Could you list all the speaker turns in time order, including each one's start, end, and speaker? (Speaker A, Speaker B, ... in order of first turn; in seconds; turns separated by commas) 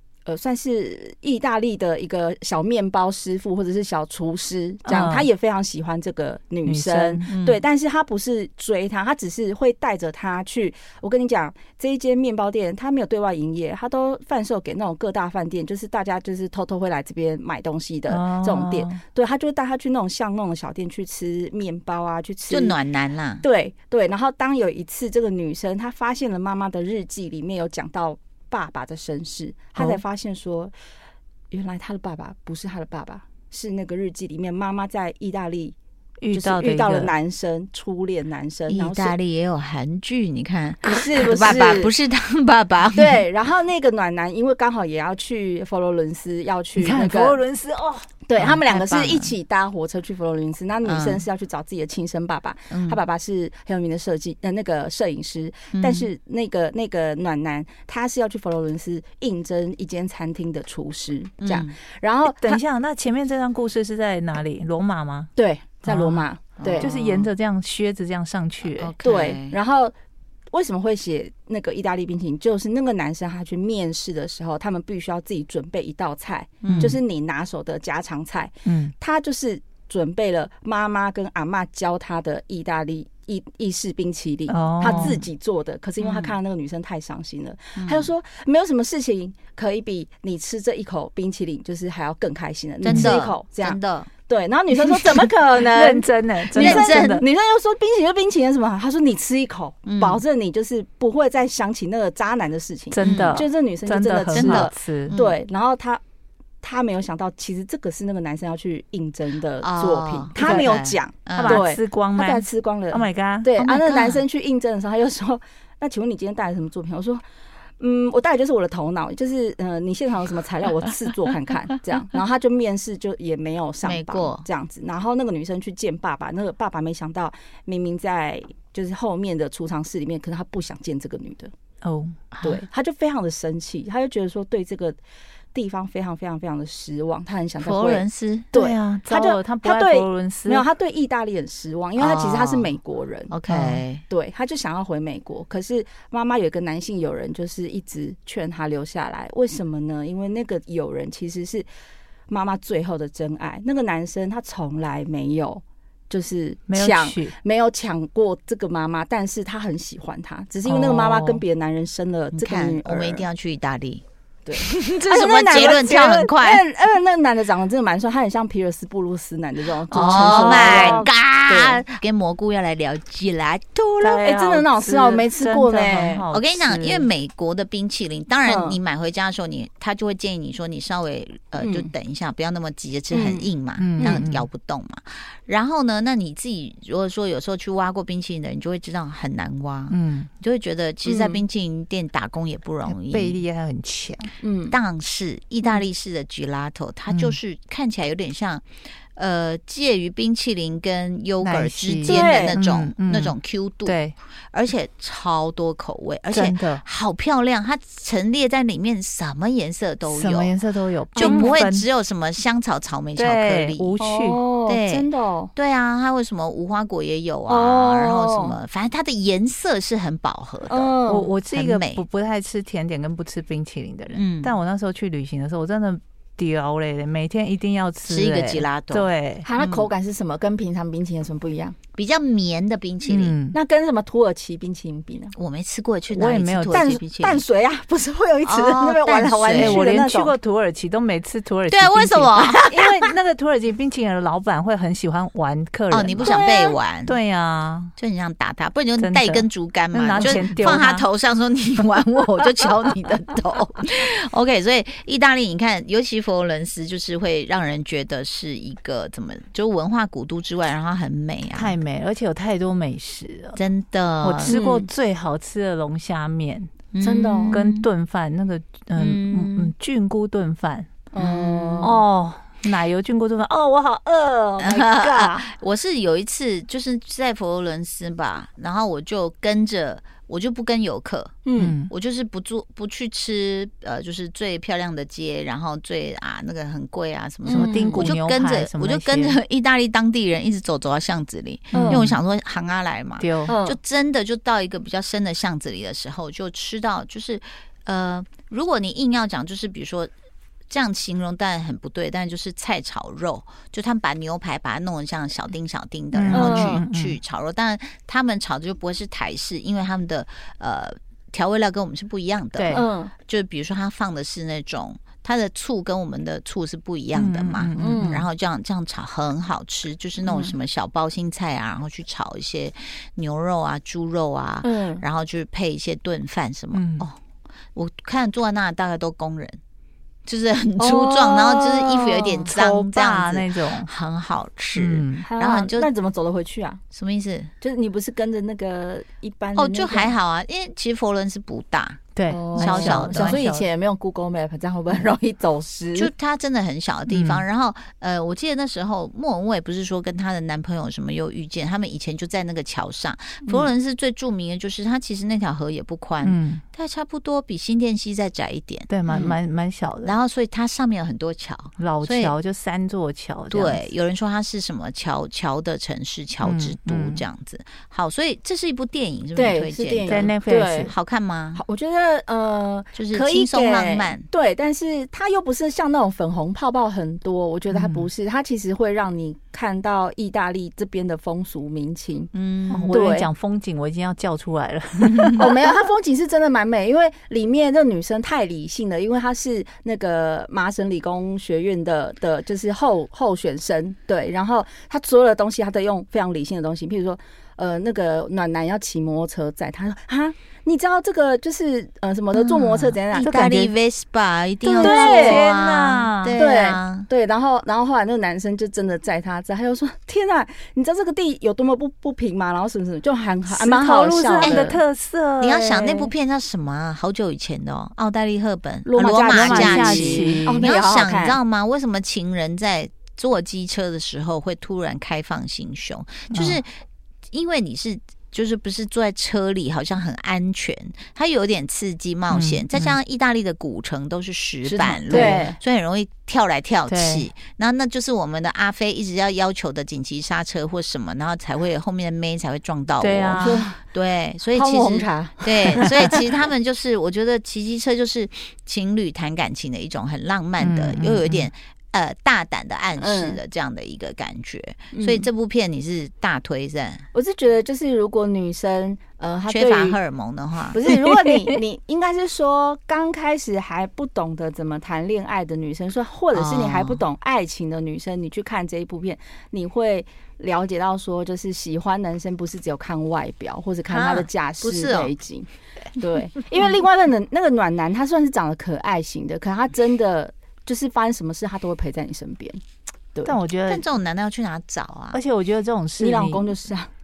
Speaker A: 0.2-22.8, Speaker B: 4.8-5.3, Speaker B: 6.6-7.3, Speaker C: 7.3-7.6, Speaker B: 18.1-19.0, Speaker C: 22.5-23.4, Speaker A: 23.4-30.7, Speaker A: 31.5-35.7, Speaker B: 36.2-37.1, Speaker A: 36.3-39.1, Speaker C: 38.7-43.2, Speaker A: 40.9-41.9, Speaker A: 42.9-47.4, Speaker B: 46.8-48.1, Speaker A: 48.3-62.6, Speaker C: 48.4-49.3, Speaker C: 50.8-51.2, Speaker C: 52.7-53.0, Speaker C: 55.7-56.1, Speaker C: 61.4-61.8, Speaker B: 62.3-65.3, Speaker A: 65.3-66.9, Speaker B: 65.8-66.3, Speaker C: 66.6-67.3, Speaker B: 66.8-68.9, Speaker C: 68.6-69.6, Speaker A: 69.0-69.9, Speaker A: 70.5-106.0, Speaker C: 76.6-77.0, Speaker B: 76.7-77.0, Speaker B: 78.7-78.9, Speaker B: 84.5-85.2, Speaker C: 86.0-86.3, Speaker C: 87.8-88.1, Speaker C: 92.8-94.1, Speaker B: 92.9-93.2, Speaker B: 95.6-97.2, Speaker C: 96.5-97.2, Speaker C: 99.8-100.2, Speaker B: 102.9-105.2, Speaker C: 103.0-103.4, Speaker C: 104.3-105.4, Speaker A: 106.6-117.2, Speaker C: 109.6-111.7, Speaker B: 110.4-110.7, Speaker B: 111.3-113.5, Speaker C: 113.6-114.2, Speaker A: 117.8-131.5, Speaker C: 123.8-124.5, Speaker B: 131.8-132.2, Speaker C: 132.3-132.6, Speaker A: 132.4-135.0, Speaker A: 135.5-143.3, Speaker C: 137.6-138.5, Speaker B: 138.5-140.6, Speaker C: 142.0-142.7, Speaker C: 143.3-144.0, Speaker B: 143.5-143.8, Speaker A: 144.1-151.7, Speaker A: 152.3-163.3, Speaker B: 156.7-157.3, Speaker B: 160.6-161.4, Speaker C: 162.3-164.0, Speaker A: 164.4-171.8, Speaker C: 164.6-166.6, Speaker C: 169.9-174.2, Speaker B: 169.9-171.1, Speaker B: 174.0-177.1, Speaker A: 174.2-176.2, Speaker C: 176.3-193.4, Speaker A: 178.4-178.8, Speaker A: 181.6-181.9, Speaker A: 183.1-184.2, Speaker B: 183.8-184.5, Speaker B: 189.9-190.3, Speaker A: 191.0-191.4, Speaker B: 192.9-194.3, Speaker A: 194.4-194.8, Speaker C: 194.7-204.0, Speaker B: 197.1-197.4, Speaker B: 201.4-204.2, Speaker A: 202.1-202.6, Speaker C: 204.5-210.6, Speaker B: 206.3-206.8, Speaker B: 210.1-211.9, Speaker C: 211.2-214.0, Speaker A: 211.2-211.6, Speaker B: 213.1-214.4, Speaker A: 214.0-215.5, Speaker C: 214.7-220.9, Speaker A: 217.5-218.6, Speaker A: 220.6-221.3, Speaker B: 221.1-229.7, Speaker C: 221.5-222.0, Speaker C: 224.1-224.5, Speaker C: 228.0-229.9, Speaker A: 229.4-231.8, Speaker C: 231.9-233.3, Speaker B: 233.0-233.6, Speaker A: 233.5-235.3, Speaker C: 235.3-237.4, Speaker B: 236.1-237.0, Speaker A: 236.7-240.3, Speaker C: 238.4-239.8, Speaker B: 239.6-246.3, Speaker C: 241.7-242.8, Speaker A: 242.7-243.1, Speaker C: 245.9-247.2, Speaker A: 246.2-246.8, Speaker B: 247.1-247.9, Speaker C: 247.9-261.8, Speaker B: 249.0-251.1, Speaker B: 261.5-263.6, Speaker C: 263.6-264.6, Speaker B: 264.2-266.8, Speaker A: 264.4-264.9, Speaker C: 266.9-267.9, Speaker A: 267.0-267.6, Speaker B: 267.5-270.9, Speaker C: 268.9-269.7, Speaker A: 271.1-272.0, Speaker C: 271.1-271.9, Speaker B: 271.8-275.4, Speaker C: 274.6-300.1, Speaker A: 281.4-281.8, Speaker B: 281.6-281.9, Speaker A: 287.5-288.0, Speaker B: 287.5-289.4, Speaker B: 291.7-292.1, Speaker A: 291.7-292.1, Speaker B: 293.2-293.6, Speaker A: 293.5-293.8, Speaker C: 300.7-327.2, Speaker B: 306.1-307.2, Speaker A: 306.3-306.8, Speaker B: 312.6-312.9, Speaker A: 312.7-313.1, Speaker B: 317.1-318.2, Speaker A: 317.8-318.2, Speaker A: 320.2-320.6, Speaker A: 324.6-325.0, Speaker B: 326.7-327.1, Speaker C: 327.7-329.6, Speaker C: 330.2-335.9, Speaker A: 330.8-332.6, Speaker B: 332.5-333.9, Speaker B: 334.8-335.3, Speaker A: 335.2-336.8, Speaker C: 336.9-337.5, Speaker A: 337.6-340.1, Speaker C: 339.5-343.4, Speaker B: 342.1-343.6, Speaker A: 342.3-346.1, Speaker C: 345.9-359.3, Speaker B: 347.1-347.4, Speaker A: 353.4-353.7, Speaker B: 356.2-356.6, Speaker B: 358.9-360.1, Speaker C: 360.0-362.3, Speaker B: 361.8-363.9, Speaker C: 363.5-370.3, Speaker B: 366.4-367.2, Speaker A: 369.3-370.9, Speaker B: 370.1-370.9, Speaker C: 370.8-371.6, Speaker A: 371.5-382.3, Speaker C: 372.9-374.2, Speaker B: 377.7-378.1, Speaker C: 382.3-382.9, Speaker B: 382.7-385.5, Speaker A: 382.9-383.3, Speaker A: 385.3-403.7, Speaker C: 402.3-407.1, Speaker B: 403.2-403.7, Speaker A: 404.7-405.4, Speaker B: 404.7-406.4, Speaker A: 406.4-414.8, Speaker B: 413.5-416.1, Speaker C: 414.4-414.7, Speaker C: 415.4-426.8, Speaker A: 418.8-421.4, Speaker B: 419.3-420.6, Speaker B: 426.3-426.6, Speaker C: 427.3-457.0, Speaker B: 432.3-433.0, Speaker A: 434.6-435.6, Speaker B: 435.1-435.4, Speaker B: 436.9-437.3, Speaker B: 443.0-443.7, Speaker A: 443.3-443.8, Speaker A: 444.5-446.3, Speaker B: 450.6-451.5, Speaker A: 453.0-453.4, Speaker A: 454.9-455.3, Speaker A: 457.1-460.0, Speaker C: 459.5-460.8, Speaker A: 460.7-482.6, Speaker C: 466.3-467.0, Speaker C: 473.9-475.1, Speaker B: 483.2-483.8, Speaker C: 483.7-485.2, Speaker B: 485.1-486.5, Speaker A: 486.0-486.9